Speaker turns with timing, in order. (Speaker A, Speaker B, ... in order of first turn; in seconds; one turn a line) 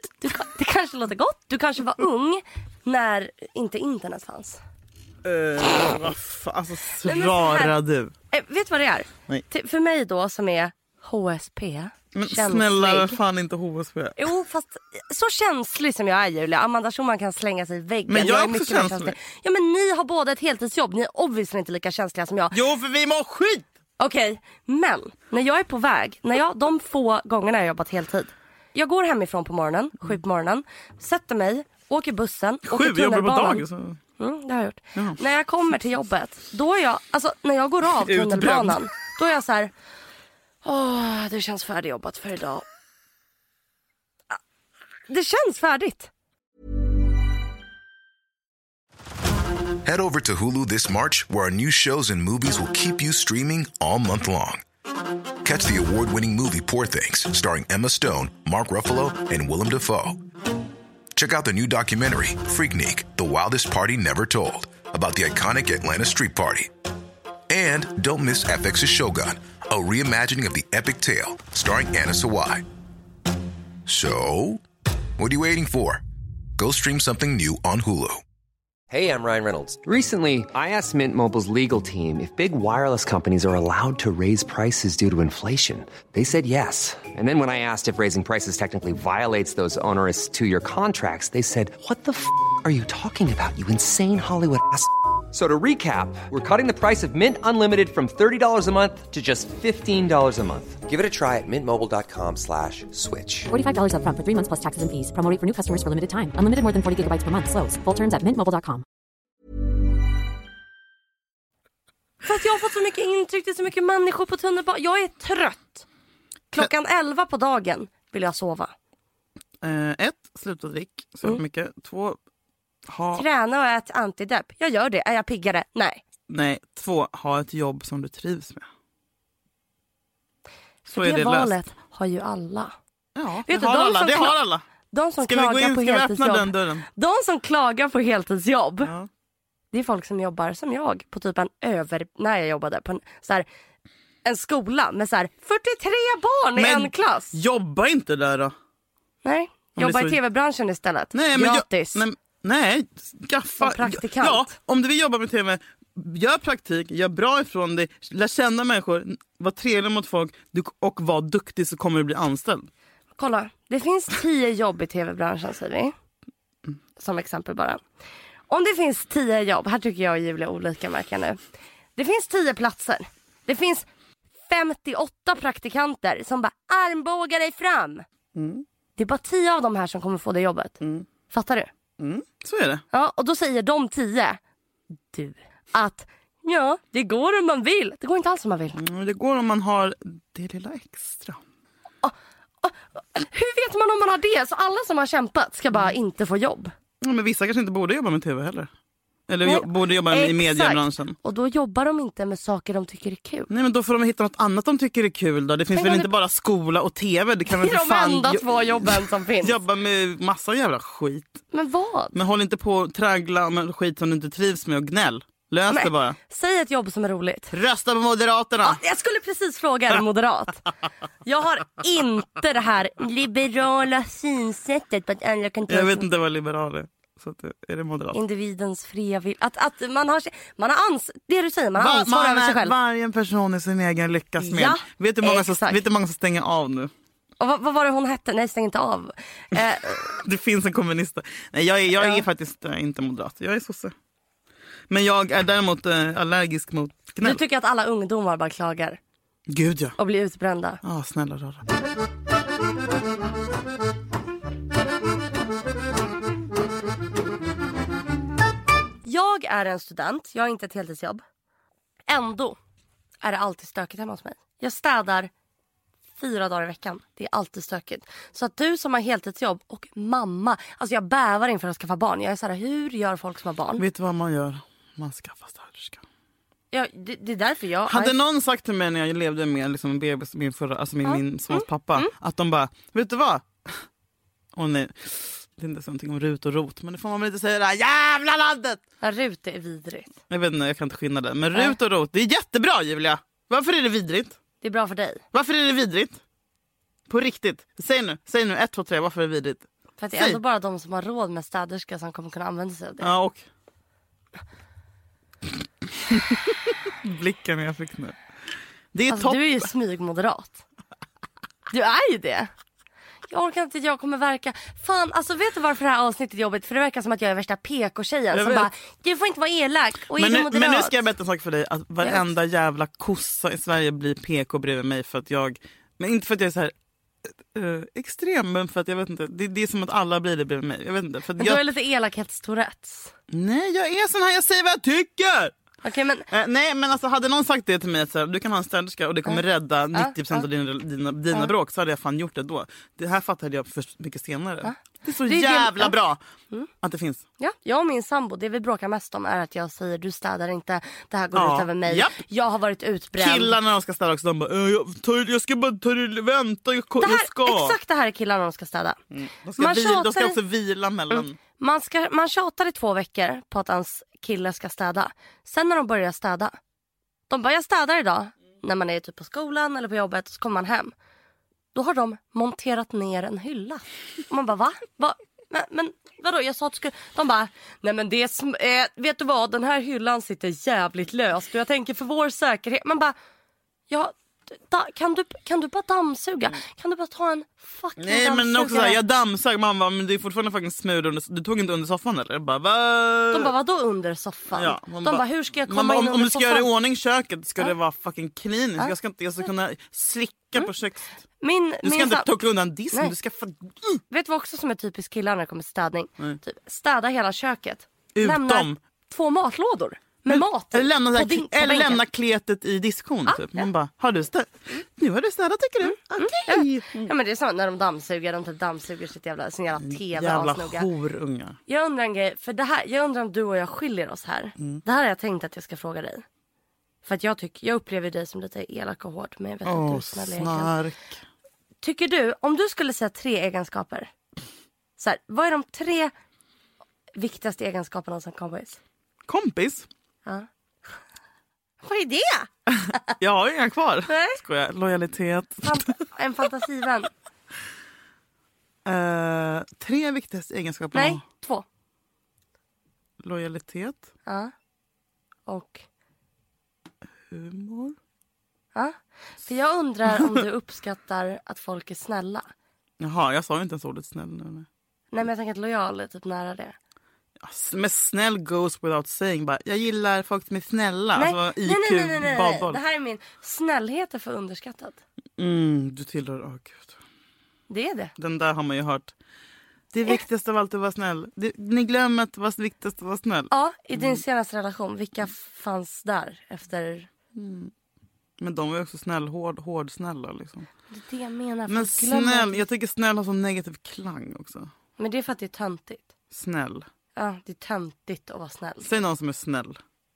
Speaker A: 0.2-4.6
Speaker B: 5.2-8.1
Speaker A: 7.0-7.7
Speaker A: 8.3-13.2
Speaker B: 12.1-14.2
Speaker A: 14.2-22.6
Speaker B: 18.1-19.1
Speaker B: 22.5-23.7
Speaker A: 24.0-33.6
Speaker B: 32.6-34.0
Speaker A: 34.2-39.7
Speaker B: 38.0-38.9
Speaker A: 40.6-42.6
Speaker A: 45.1-46.1
Speaker C: 49.9-54.6
Speaker C: 55.4-60.2
Speaker C: 61.1-66.7
Speaker C: 67.5-72.7
Speaker C: 73.9-74.6
Speaker C: 75.2-76.0
Speaker C: 76.6-78.2
Speaker D: 78.9-103.5
Speaker E: 103.5-108.8
Speaker A: 112.2-115.9
Speaker A: 116.5-118.7
Speaker B: 119.6-122.2
Speaker B: 122.9-123.2
Speaker A: 123.2-126.0
Speaker B: 126.3-128.7
Speaker A: 130.9-132.8
Speaker B: 130.9-131.5
Speaker B: 133.2-134.6
Speaker A: 133.5-134.4
Speaker A: 134.9-138.9
Speaker B: 135.2-136.9
Speaker B: 138.8-139.1
Speaker A: 139.7-143.5
Speaker A: 144.2-147.3
Speaker B: 146.6-148.5
Speaker A: 149.2-152.1
Speaker B: 149.8-150.2
Speaker B: 151.1-162.7
Speaker A: 153.6-154.5
Speaker A: 163.2-165.9
Speaker A: 167.0-167.8
Speaker A: 168.5-171.4
Speaker A: 172.0-173.9
Speaker A: 174.5-178.0
Speaker B: 178.3-178.6
Speaker A: 179.0-180.8
Speaker B: 180.8-181.1
Speaker A: 181.3-181.7
Speaker B: 182.0-182.8
Speaker A: 182.9-184.4
Speaker A: 185.1-188.8
Speaker B: 188.8-191.4
Speaker A: 192.0-196.7
Speaker B: 197.0-198.7
Speaker B: 199.3-201.2
Speaker A: 199.4-203.5
Speaker B: 203.5-211.4
Speaker A: 205.7-206.1
Speaker A: 207.5-209.6
Speaker A: 211.5-212.2
Speaker B: 212.1-216.2
Speaker A: 215.7-217.5
Speaker B: 217.5-218.8
Speaker A: 218.6-220.7
Speaker A: 221.2-226.1
Speaker B: 225.7-228.2
Speaker A: 228.1-232.8
Speaker B: 231.8-236.9
Speaker A: 234.4-235.8
Speaker A: 237.4-240.2
Speaker B: 240.1-243.9
Speaker A: 242.0-242.2
Speaker B: 244.9-247.4
Speaker A: 247.2-249.0
Speaker B: 249.5-250.0
Speaker A: 250.0-250.8
Speaker B: 250.8-251.6
Speaker A: 259.1-261.2
Speaker A: 262.1-262.6
Speaker A: 263.2-265.3
Speaker A: 266.2-273.8
Speaker B: 273.8-276.0
Speaker A: 276.7-278.2
Speaker B: 277.9-283.8
Speaker A: 281.1-282.1
Speaker B: 284.6-288.8
Speaker A: 289.0-290.1
Speaker B: 290.3-294.4
Speaker A: 294.6-295.2
Speaker B: 295.3-296.2
Speaker B: 297.1-300.4
Speaker A: 300.0-303.1
Speaker B: 303.0-303.4
Speaker B: 306.1-308.2
Speaker B: 308.9-309.7
Speaker A: 309.1-310.6
Speaker A: 311.7-312.5
Speaker A: 313.3-321.0
Speaker B: 318.3-318.7
Speaker B: 320.1-326.7
Speaker B: 327.5-331.6
Speaker A: 331.4-333.1
Speaker B: 333.3-335.6
Speaker A: 335.8-336.3
Speaker B: 336.3-346.2
Speaker A: 339.9-340.4
Speaker A: 344.6-346.0
Speaker B: 346.8-347.2
Speaker A: 347.4-353.6
Speaker B: 351.4-352.2
Speaker B: 353.2-357.8
Speaker A: 357.0-359.0
Speaker B: 359.1-361.4
Speaker A: 359.6-360.4
Speaker A: 361.1-366.6
Speaker A: 367.3-370.9
Speaker A: 371.8-383.1
Speaker A: 383.9-389.0
Speaker B: 388.0-393.5
Speaker A: 393.3-396.7
Speaker B: 394.5-401.2
Speaker A: 401.4-402.3
Speaker B: 401.8-404.0
Speaker A: 404.1-412.0
Speaker B: 408.1-408.8
Speaker B: 410.3-417.1
Speaker A: 413.3-413.7
Speaker A: 416.2-420.9
Speaker B: 419.8-421.6
Speaker A: 421.7-426.2
Speaker A: 427.0-430.7
Speaker B: 429.6-431.1
Speaker A: 431.8-434.1
Speaker A: 435.0-436.1
Speaker A: 437.1-438.8
Speaker B: 439.3-439.9
Speaker A: 441.8-442.5
Speaker B: 442.8-445.9
Speaker A: 444.1-444.4
Speaker A: 445.6-447.1
Speaker B: 448.9-451.2
Speaker A: 450.9-451.6
Speaker B: 453.2-454.1
Speaker A: 454.3-454.5
Speaker A: 455.5-455.8
Speaker B: 457.3-458.0
Speaker A: 458.7-462.5
Speaker B: 463.0-464.7
Speaker A: 465.1-466.8
Speaker B: 467.4-472.8
Speaker A: 471.2-475.0
Speaker B: 475.4-477.0
Speaker A: 477.7-478.1
Speaker B: 478.2-479.1
Speaker B: 479.9-484.2
Speaker A: 483.5-487.1
Speaker B: 487.4-487.7
Speaker B: 488.4-490.7
Speaker A: 490.9-492.6
Speaker B: 491.7-494.7
Speaker A: 495.0-496.1
Speaker B: 496.3-496.9
Speaker A: 497.2-498.9
Speaker B: 498.8-499.8